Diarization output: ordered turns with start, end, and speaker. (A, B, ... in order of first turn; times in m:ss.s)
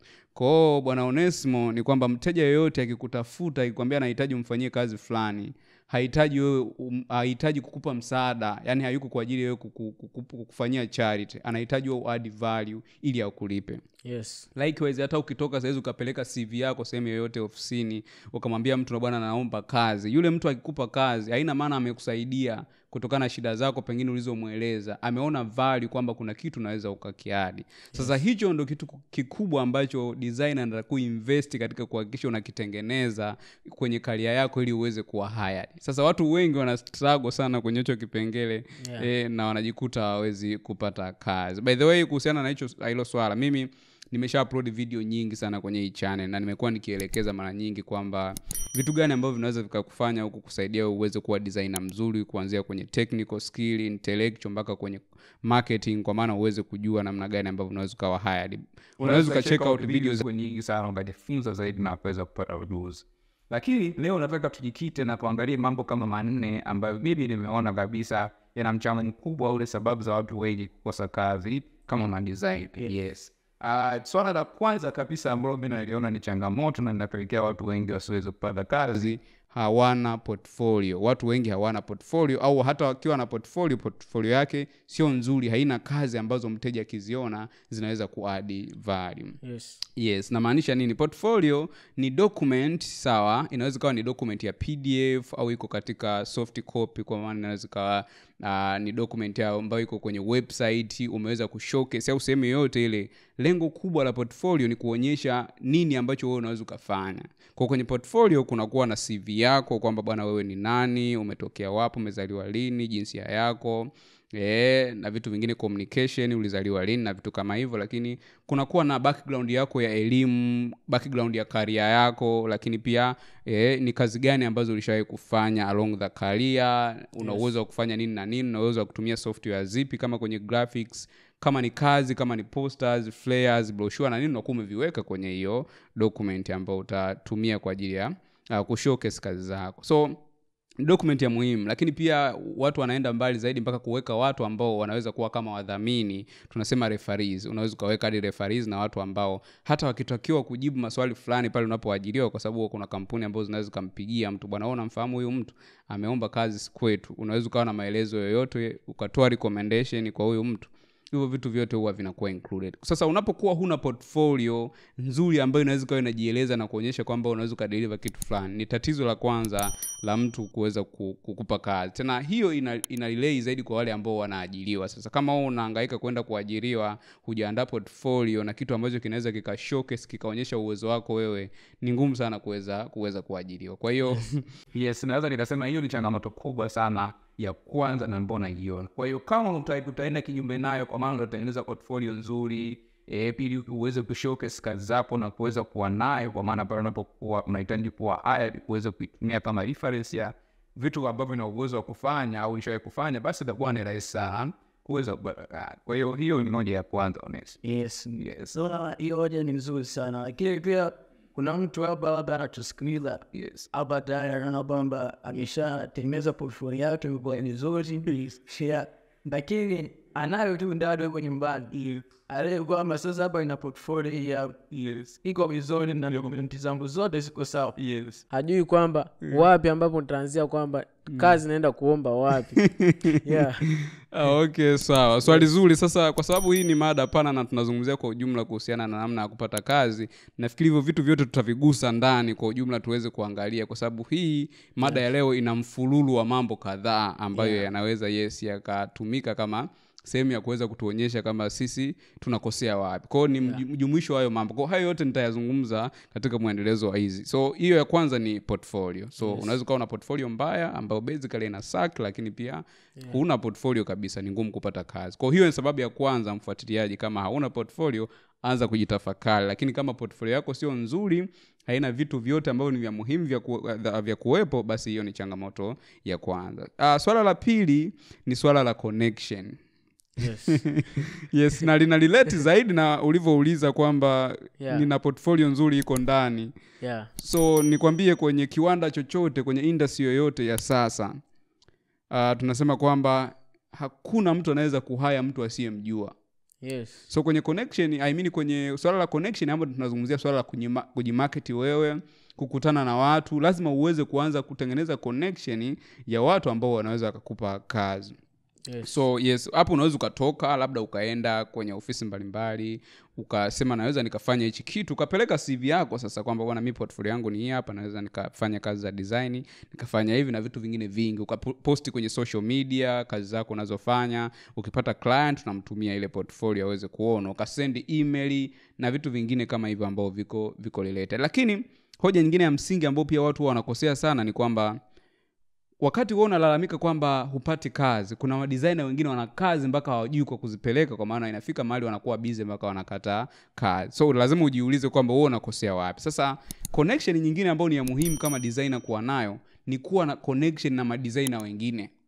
0:00.4-0:13.8 A
0:14.0-0:14.5 B
0:14.6-1:00.2 A
0:38.8-0:39.1 B
0:59.0-1:19.2 C
1:19.4-1:29.4 A
1:29.4-1:29.8 B
1:30.0-2:20.2 A
2:20.8-3:04.5 A
3:04.7-3:27.6 C
3:27.6-3:47.8 D
3:47.8-3:48.2 C
3:48.3-3:53.6 B
3:52.8-3:53.2 A
3:54.1-4:39.6 A
4:07.3-4:07.7 B
4:19.2-4:19.5 B
4:40.2-4:41.0 B
4:40.6-4:46.5 A
4:44.6-4:44.9 B
4:46.8-4:47.1 B
4:47.2-4:51.2 A
4:52.1-4:56.1 A
4:56.6-4:57.1 B
4:57.1-5:08.2 A
5:08.7-5:09.0 B
5:08.8-5:34.8 A
5:35.8-5:51.9 A